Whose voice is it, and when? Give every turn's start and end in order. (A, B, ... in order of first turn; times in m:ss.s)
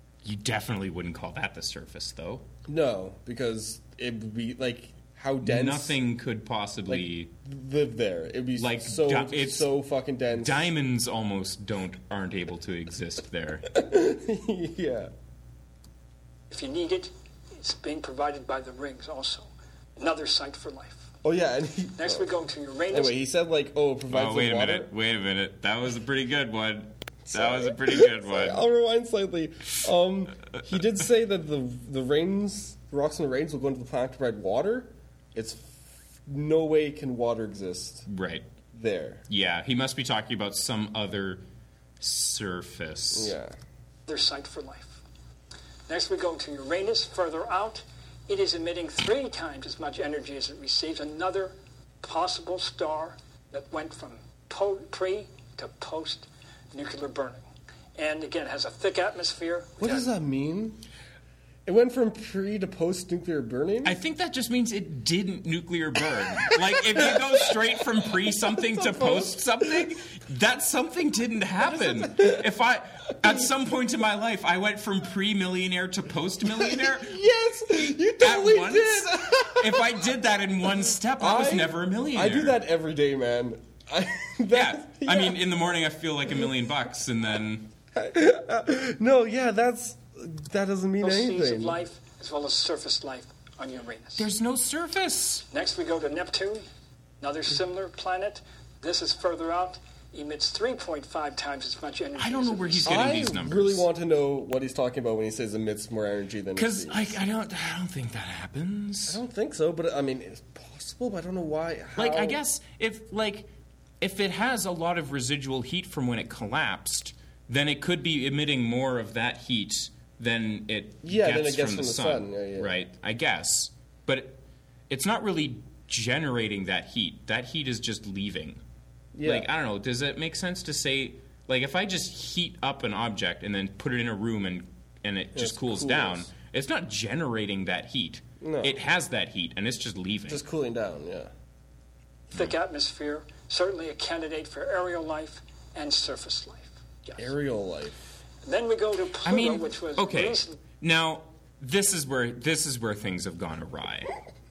0:00.2-0:02.4 A
0:02.7-0:06.0 B
0:05.4-0:07.3 A
0:06.9-0:10.7 B
0:08.6-0:09.7 A
0:10.3-0:13.7 A
0:13.7-0:15.1 B
0:16.5-0:21.1 C
0:21.2-0:22.3 B
0:22.0-0:23.2 C
0:22.9-0:24.9 B
0:24.1-0:28.6 A
0:27.3-0:38.1 B
0:38.1-0:38.5 A
0:38.7-0:39.2 B
0:39.3-0:41.4 A
0:42.0-0:43.3 A
0:43.1-0:43.6 B
0:44.1-0:45.0 C
0:45.9-0:57.4 C
0:58.0-1:00.1 C
0:59.8-1:00.8 B
1:01.7-1:04.0 B
1:03.8-1:17.2 A
1:06.4-1:07.2 B
1:08.1-1:09.9 B
1:11.6-1:12.5 B
1:16.4-1:20.0 B
1:17.8-1:22.6 A
1:21.2-1:25.4 B
1:24.5-1:27.7 A
1:27.9-1:31.8 B
1:31.0-1:34.3 C
1:34.2-1:35.5 A
1:35.5-1:36.7 C
1:37.2-1:43.2 C
1:42.2-1:43.8 A
1:42.8-1:47.2 B
1:46.6-1:49.2 A
1:49.1-1:52.4 B
1:52.0-1:53.5 A
1:54.0-2:08.6 A
2:01.0-2:02.8 B
2:09.1-2:09.5 B
2:09.2-2:20.4 A
2:15.4-2:16.3 B
2:18.4-2:18.8 B
2:20.3-2:21.3 B
2:22.3-2:27.3 C
2:27.2-2:28.0 B
2:28.4-2:30.6 C
2:29.2-2:34.1 A